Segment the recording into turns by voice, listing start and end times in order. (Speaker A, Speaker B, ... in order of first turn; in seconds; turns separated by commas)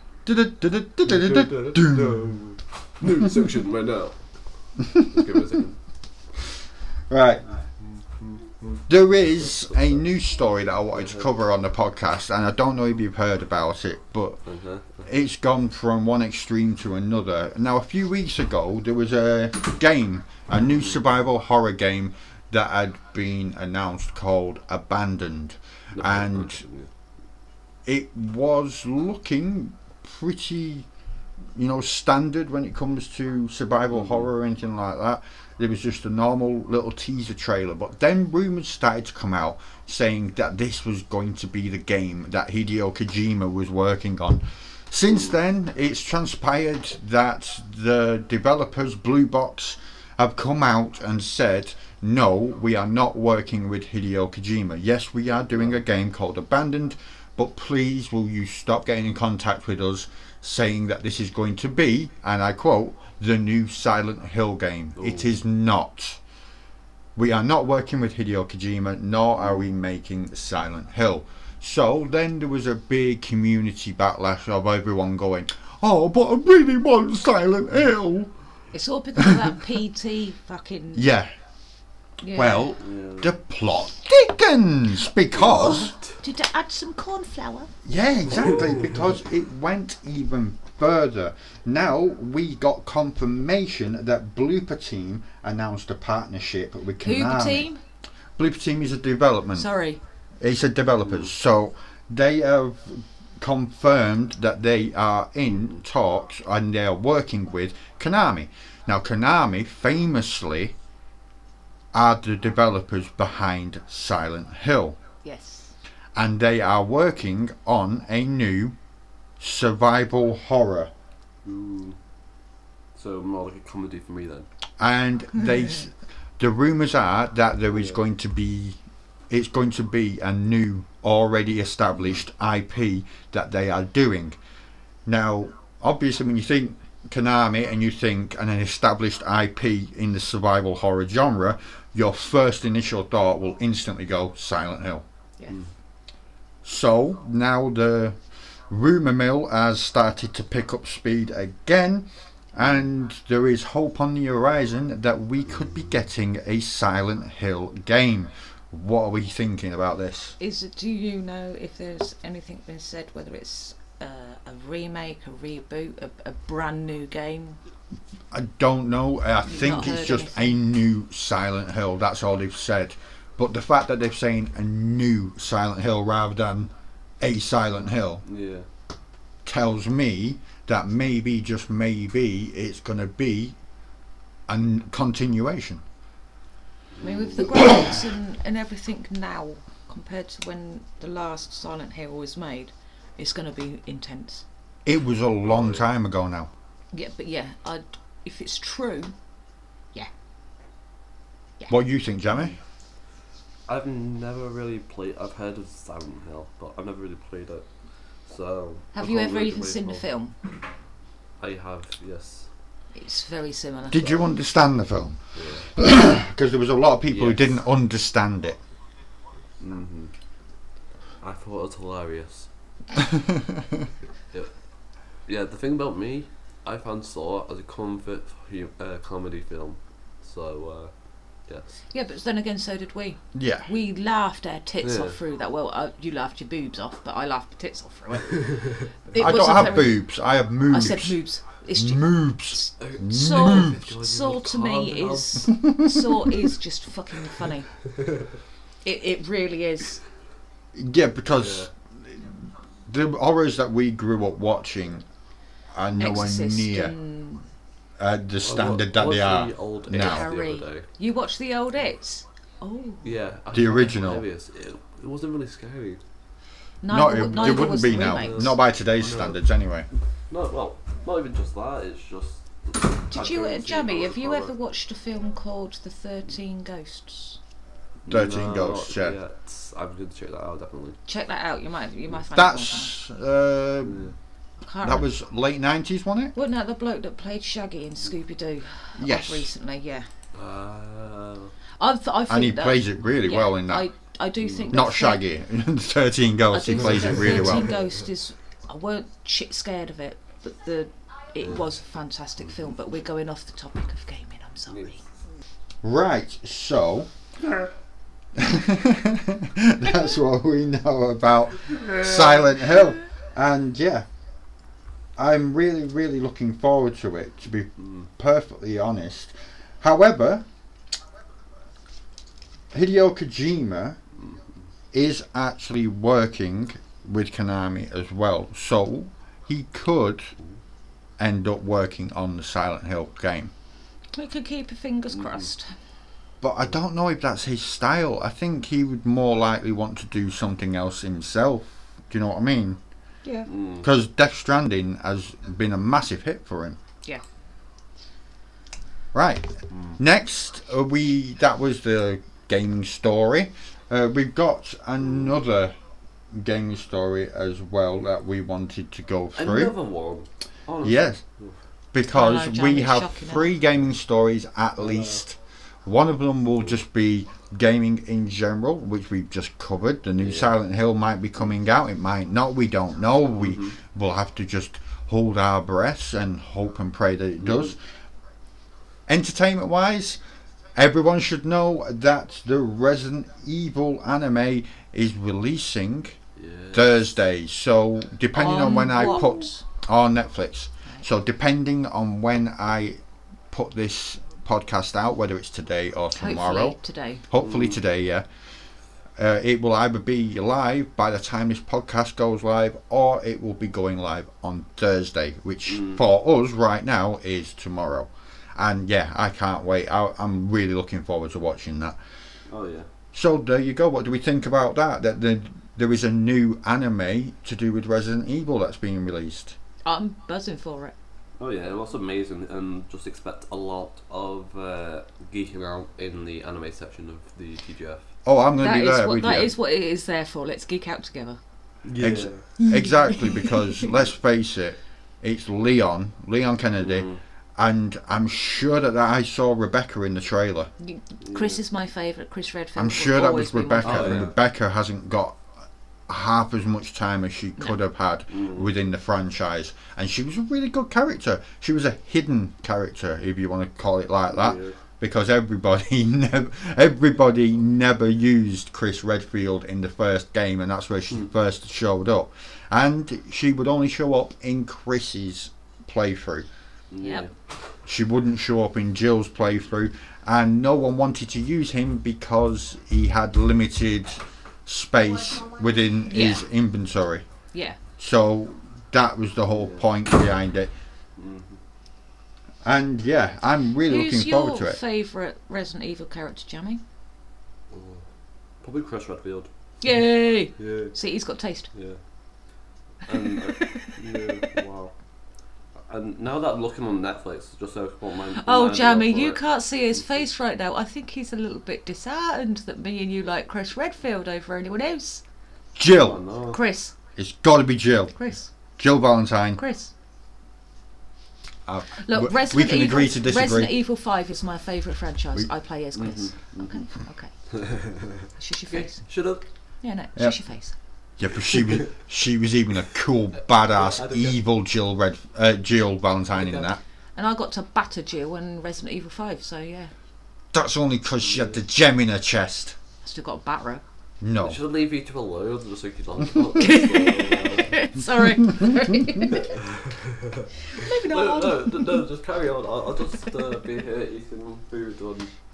Speaker A: 0.3-2.4, Speaker B: 1.1-5.8, Speaker A: 7.1-7.5, Speaker B: 7.8-8.8, Speaker A: 8.9-14.4, Speaker B: 9.4-10.1, Speaker B: 10.9-11.3, Speaker B: 14.5-15.1, Speaker A: 15.0-26.6, Speaker B: 25.9-26.9, Speaker A: 27.9-30.9, Speaker A: 31.6-66.2, Speaker B: 33.9-34.3, Speaker B: 55.5-55.8, Speaker B: 65.0-65.4, Speaker A: 67.2-78.3, Speaker B: 69.4-69.6, Speaker C: 78.7-81.1, Speaker A: 79.2-79.5, Speaker A: 80.9-81.3, Speaker C: 82.2-82.7, Speaker A: 82.3-85.9, Speaker B: 82.8-83.3, Speaker B: 85.3-86.2, Speaker C: 85.4-87.7, Speaker A: 87.8-97.7, Speaker C: 97.0-97.8, Speaker A: 98.4-99.7, Speaker C: 99.5-100.0, Speaker A: 100.4-110.8, Speaker B: 101.0-101.3, Speaker B: 105.5-105.8, Speaker A: 111.9-115.0, Speaker C: 115.2-115.7, Speaker A: 116.2-118.8, Speaker A: 119.4-120.9, Speaker B: 121.4-122.0, Speaker B: 123.0-124.5, Speaker A: 124.8-128.8, Speaker B: 127.7-128.0, Speaker A: 129.3-134.4, Speaker A: 135.1-145.0, Speaker A: 146.6-148.2, Speaker A: 148.7-160.4, Speaker B: 155.5-155.8, Speaker C: 160.4-167.6, Speaker A: 168.3-178.2, Speaker C: 169.5-170.6, Speaker B: 178.2-178.7, Speaker A: 179.4-183.6, Speaker A: 184.5-185.8, Speaker B: 186.9-187.5, Speaker C: 187.0-194.5, Speaker A: 194.8-196.5, Speaker B: 195.4-195.8, Speaker C: 196.9-199.2, Speaker A: 201.7-202.6, Speaker B: 202.3-202.6, Speaker B: 203.7-207.7, Speaker B: 208.2-210.1, Speaker C: 208.9-210.4, Speaker B: 211.4-212.5, Speaker C: 212.9-214.2, Speaker A: 213.9-218.6, Speaker B: 215.3-215.7, Speaker B: 217.1-217.6, Speaker B: 219.6-220.1, Speaker B: 221.2-222.5, Speaker A: 223.1-223.8, Speaker B: 225.3-230.9, Speaker C: 231.9-240.0, Speaker A: 233.3-233.7, Speaker B: 234.8-235.2, Speaker A: 239.2-241.2, Speaker C: 240.7-247.7, Speaker A: 241.8-243.8, Speaker B: 242.8-245.5, Speaker A: 245.7-246.1, Speaker C: 248.8-250.0, Speaker A: 250.8-255.1, Speaker B: 251.3-251.7, Speaker A: 255.7-256.9, Speaker C: 256.0-257.5, Speaker A: 258.0-260.2, Speaker B: 258.4-260.9, Speaker C: 259.9-263.1, Speaker B: 263.0-266.0, Speaker A: 263.5-264.2, Speaker C: 266.8-268.5, Speaker A: 266.9-269.9, Speaker B: 267.4-269.4, Speaker B: 270.3-274.5, Speaker C: 273.1-277.4, Speaker B: 278.1-281.0, Speaker A: 278.1-279.2, Speaker C: 281.1-282.9, Speaker A: 282.3-284.1, Speaker B: 283.9-284.1, Speaker C: 284.6-285.1, Speaker A: 284.8-286.3, Speaker C: 286.4-290.1, Speaker A: 289.0-289.5, Speaker B: 290.3-291.5, Speaker C: 291.8-295.2, Speaker A: 292.3-293.9, Speaker B: 294.4-294.7, Speaker A: 294.7-297.7, Speaker C: 296.5-305.0, Speaker B: 296.8-297.8, Speaker B: 304.7-304.9, Speaker A: 305.8-307.1, Speaker A: 308.4-314.1, Speaker A: 315.2-320.5, Speaker B: 317.8-318.1, Speaker A: 322.7-324.0, Speaker B: 324.2-324.5, Speaker A: 324.9-330.3, Speaker A: 331.2-333.5, Speaker C: 334.2-335.7, Speaker A: 336.4-342.8, Speaker C: 343.2-343.5, Speaker B: 343.5-343.9, Speaker A: 343.8-346.8, Speaker A: 349.1-355.7, Speaker B: 349.7-350.0, Speaker B: 355.0-355.3, Speaker A: 356.3-359.7, Speaker B: 359.4-361.6, Speaker A: 360.8-361.2, Speaker A: 361.9-377.8, Speaker C: 362.1-363.5, Speaker B: 364.8-365.2, Speaker B: 370.2-370.5, Speaker B: 373.4-373.8, Speaker B: 377.4-377.7, Speaker A: 379.1-380.2, Speaker A: 380.8-386.2, Speaker B: 386.4-387.1, Speaker A: 386.7-393.0, Speaker C: 388.3-389.6, Speaker A: 393.5-396.8, Speaker C: 396.2-397.2, Speaker A: 397.3-398.3, Speaker B: 397.4-397.8, Speaker A: 399.2-412.0, Speaker B: 405.7-406.0, Speaker B: 412.5-412.9, Speaker A: 413.1-419.6, Speaker C: 419.9-420.9, Speaker B: 421.4-428.1, Speaker A: 428.3-429.5, Speaker C: 428.6-431.4, Speaker B: 431.8-432.4, Speaker A: 432.0-440.7, Speaker C: 432.6-433.8, Speaker B: 436.8-437.2, Speaker C: 440.8-444.3, Speaker B: 441.2-441.6, Speaker A: 442.8-445.4, Speaker B: 443.8-444.3, Speaker A: 446.1-466.5, Speaker B: 448.3-448.7, Speaker B: 454.3-454.8, Speaker B: 466.9-467.3, Speaker C: 467.0-467.3, Speaker A: 467.9-477.2, Speaker C: 476.1-476.4, Speaker C: 477.5-477.8, Speaker A: 478.0-480.7, Speaker B: 479.5-479.9, Speaker B: 481.2-481.6, Speaker A: 482.6-484.8, Speaker C: 483.9-486.8, Speaker B: 487.7-488.0, Speaker B: 488.6-489.5, Speaker C: 489.8-491.7, Speaker B: 490.6-490.9, Speaker B: 491.7-492.0, Speaker B: 493.0-494.9, Speaker C: 493.2-494.5, Speaker B: 495.9-499.4, Speaker C: 498.4-505.2, Speaker B: 499.9-500.2, Speaker A: 505.8-506.2, Speaker B: 505.9-506.6, Speaker C: 506.5-506.9, Speaker A: 507.2-508.1, Speaker C: 508.2-508.5, Speaker A: 508.8-509.6, Speaker C: 509.6-509.9, Speaker A: 511.7-513.7, Speaker C: 512.0-517.3, Speaker B: 516.0-516.9, Speaker B: 517.5-519.4, Speaker C: 518.4-519.0, Speaker C: 519.8-520.8, Speaker A: 521.2-526.8, Speaker B: 521.5-521.8, Speaker B: 523.7-524.4, Speaker B: 526.4-526.7, Speaker C: 527.2-529.9, Speaker A: 530.5-532.8, Speaker B: 531.2-531.6, Speaker C: 533.0-533.8, Speaker A: 534.2-534.6, Speaker B: 534.4-537.8, Speaker C: 536.5-539.6, Speaker B: 539.4-545.3, Speaker C: 540.7-542.0